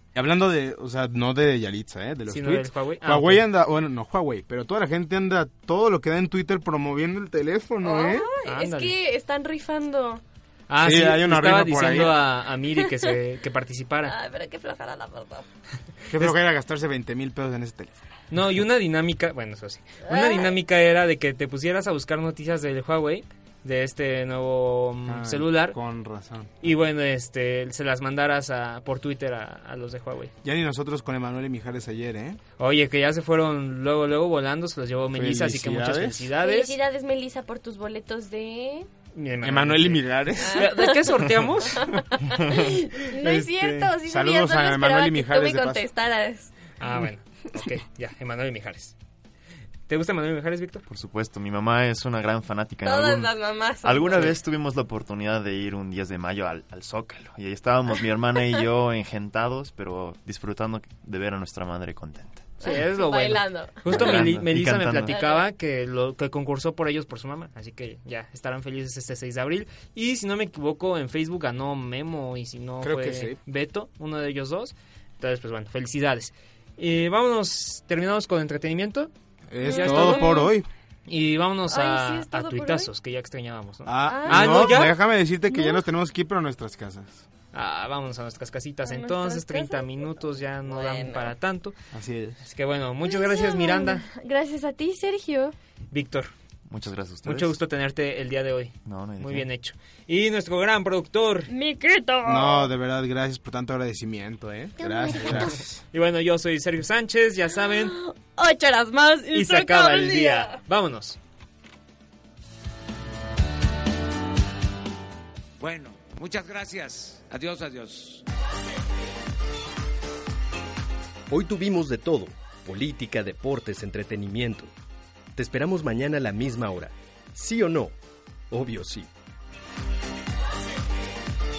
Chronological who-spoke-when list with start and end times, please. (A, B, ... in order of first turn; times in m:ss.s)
0:00.1-0:08.3 A
0:02.3-0:03.4 B
0:07.8-0:10.2 C
0:08.4-0:08.9 B
0:10.7-0:14.2 B
0:10.8-0:12.2 A
0:12.8-0:13.1 C
0:14.0-0:15.4 C
0:16.1-0:18.0 A
0:18.3-0:25.8 B
0:20.0-0:20.5 C
0:25.0-0:26.5 A
0:26.6-0:30.3 B
0:30.4-0:32.4 A
0:32.6-0:36.8 B
0:35.1-0:36.3 A
0:36.4-0:38.9 C
0:39.1-0:41.9 B
0:39.4-0:40.8 A
0:40.4-0:41.1 C
0:41.7-0:46.5 C
0:43.3-0:43.9 B
0:44.0-0:45.9 A
0:46.8-0:48.9 B
0:49.9-0:50.8 B
0:50.9-1:02.6 D
0:52.8-0:54.4 C
1:02.6-1:04.2 C
1:02.6-1:19.1 B
1:03.9-1:05.2 D
1:05.1-1:05.5 C
1:12.8-1:13.4 A
1:19.5-1:20.7 A
1:19.6-1:20.5 B
1:19.6-1:20.5 C
1:21.1-1:25.0 B
1:21.7-1:22.9 C
1:23.8-1:27.2 A
1:24.0-1:24.9 C
1:25.5-1:25.8 C
1:27.5-1:31.7 B
1:28.8-1:31.3 C
1:31.9-1:32.4 A
1:32.4-1:34.0 B
1:33.0-1:35.5 C
1:35.9-1:36.3 B
1:36.7-1:37.6 D
1:37.2-1:41.5 B
1:38.8-1:39.5 D
1:41.5-1:42.7 C
1:42.2-1:45.8 A
1:44.8-1:45.6 C
1:45.9-1:48.0 B
1:47.9-1:50.6 C
1:49.3-1:51.2 B
1:55.6-1:58.2 E
2:01.3-2:04.7 F
2:05.4-2:07.9 F
2:08.5-2:09.1 F